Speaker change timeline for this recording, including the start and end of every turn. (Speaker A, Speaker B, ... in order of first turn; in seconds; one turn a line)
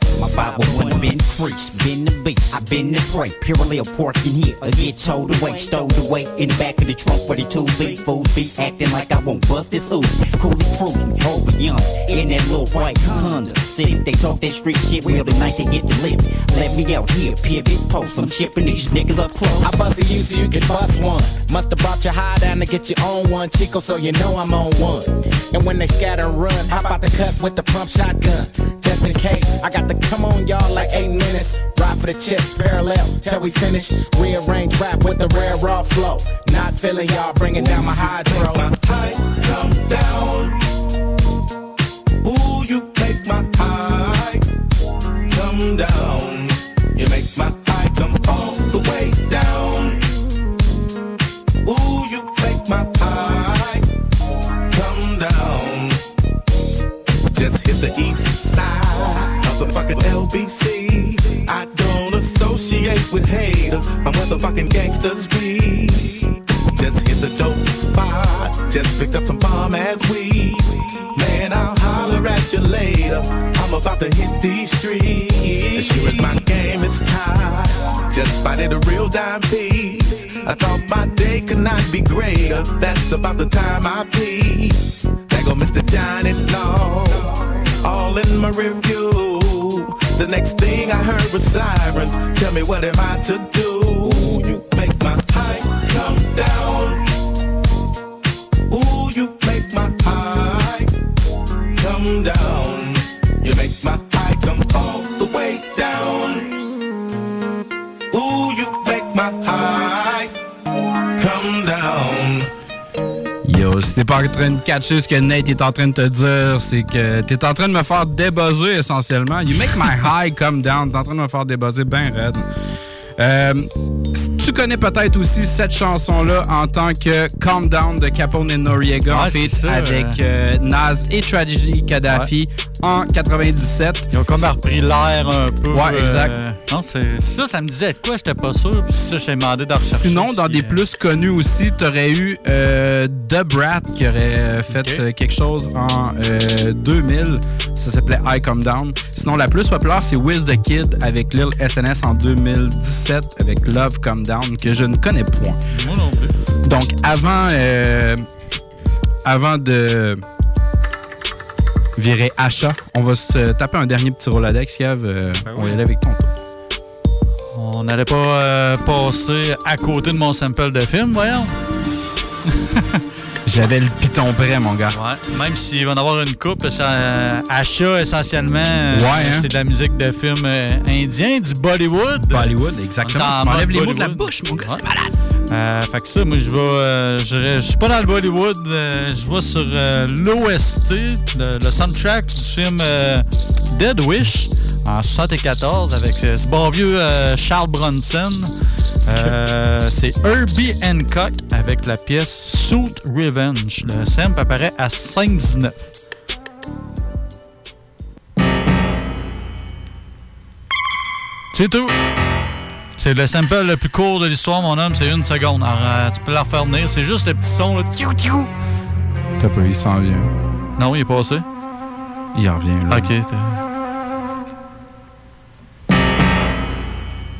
Speaker A: 0.2-19.7
Speaker B: 0.7-1.0
Speaker C: 19.6-38.6
Speaker B: 37.5-40.5
Speaker B: 42.2-44.4
Speaker B: 45.3-50.0
Speaker B: 51.6-53.8
Speaker B: 54.7-56.0
Speaker B: 57.3-97.1
Speaker B: 98.7-100.9
Speaker B: 101.8-106.5
Speaker B: 108.1-110.3
Speaker B: 111.2-112.5
Speaker D: 113.4-122.5
Speaker D: 123.2-134.1
Speaker E: 129.1-130.2
Speaker E: 134.1-140.8
Speaker D: 135.7-136.3
Speaker D: 139.9-155.6
Speaker E: 144.7-145.0
Speaker E: 155.7-156.3
Speaker D: 156.6-158.2
Speaker D: 159.2-160.2
Speaker D: 162.0-166.3
Speaker E: 165.4-165.8
Speaker E: 167.5-171.5
Speaker D: 173.4-175.0
Speaker E: 174.9-184.8
Speaker D: 178.9-179.5
Speaker D: 182.3-185.1
Speaker E: 185.5-198.5
Speaker E: 199.1-205.9
Speaker D: 199.1-199.3
Speaker E: 211.5-211.9
Speaker E: 213.0-218.5
Speaker D: 219.4-220.3
Speaker E: 220.8-221.4
Speaker D: 222.3-223.1
Speaker E: 222.9-223.6